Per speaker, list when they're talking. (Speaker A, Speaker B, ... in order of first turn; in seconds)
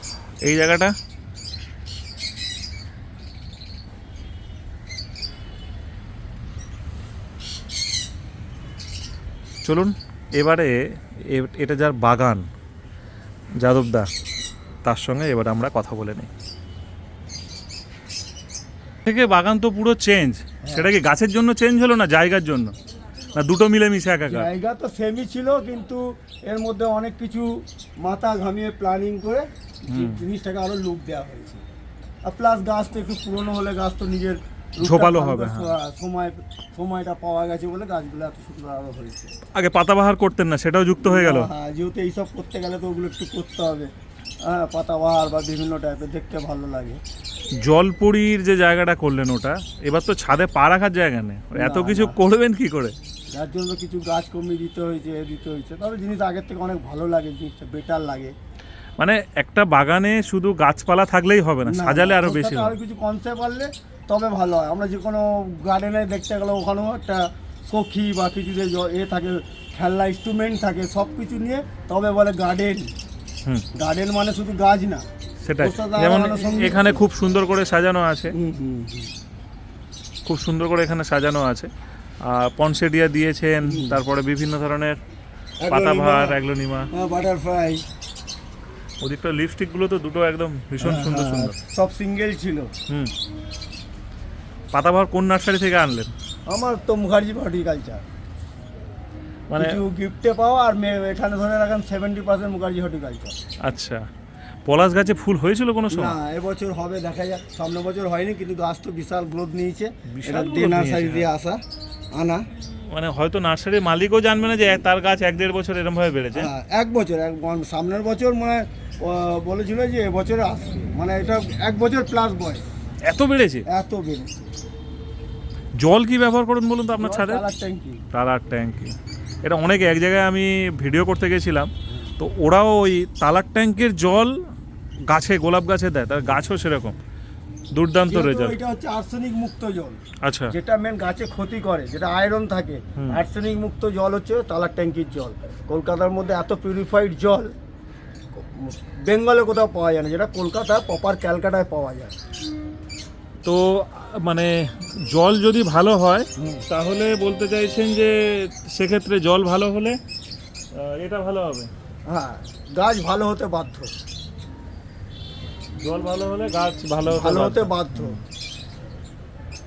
Speaker A: 0.4-0.9, 9.6-12.5, 13.6-14.1, 14.8-16.3, 19.1-22.7, 23.3-24.5, 29.9-30.2, 34.8-35.8, 39.5-41.5, 47.6-53.0, 59.0-62.8, 75.4-78.3, 80.2-81.7, 82.2-85.0, 85.7-86.9, 89.0-91.6, 92.9-93.1, 94.7-96.1, 99.5-99.8, 103.6-104.1, 104.6-106.1, 110.0-111.3, 112.8-116.5, 123.0-123.6, 125.8-127.4, 128.1-134.3, 135.0-137.0, 137.7-138.6, 140.2-140.5, 142.9-143.2, 153.4-160.0, 160.7-161.7, 165.8-168.2
Speaker B: 20.6-20.9, 24.2-27.5, 28.0-31.6, 32.2-39.3, 41.0-43.9, 44.4-47.0, 51.5-52.2, 53.3-58.3, 61.6-72.9, 73.7-75.0, 75.6-77.1, 78.3-79.1, 83.6-84.0, 85.6-86.4, 86.9-87.8, 90.8-92.7, 96.5-98.0, 99.5-103.3, 105.9-111.6, 112.1-112.4, 116.3-122.6, 123.7-124.5, 127.0-128.0, 138.0-147.5, 148.3-152.1, 156.3-156.7, 162.1-163.9, 167.0-168.2